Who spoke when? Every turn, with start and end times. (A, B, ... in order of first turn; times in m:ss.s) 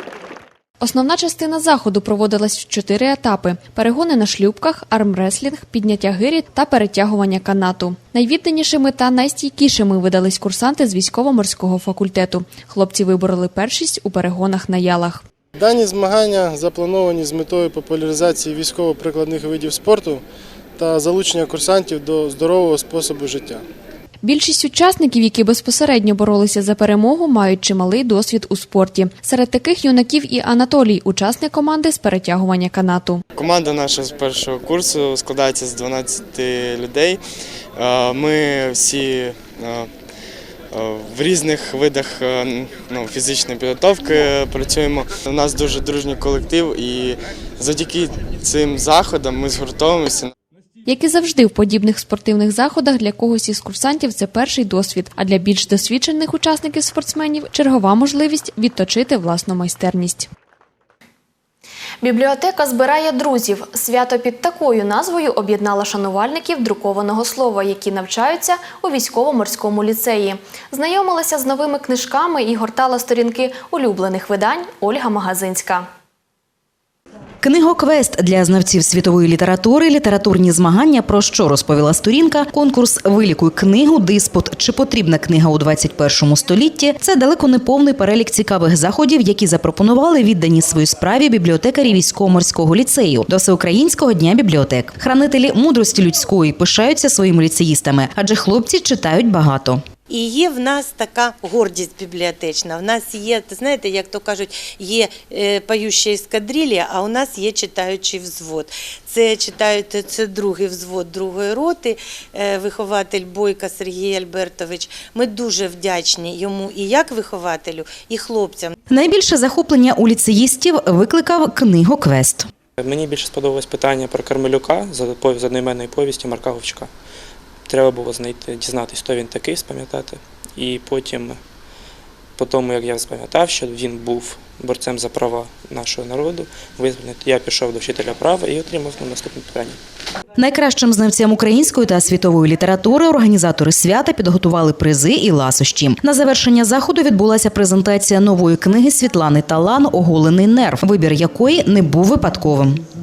0:00.8-0:15.2 A
0:15.6-0:20.2 B
0:20.8-0:23.6 B
0:24.2-0:33.2 A
0:33.4-0:37.2 C
0:37.8-0:39.9 C
0:40.7-0:50.3 C
0:50.9-1:00.3 A
1:02.0-1:15.9 A
1:17.4-1:39.8 D
1:40.1-1:58.8 E
1:58.9-2:02.5 D
2:02.8-2:06.9 F
2:07.7-2:11.4 F
2:12.4-2:19.8 F
2:20.4-2:32.8 D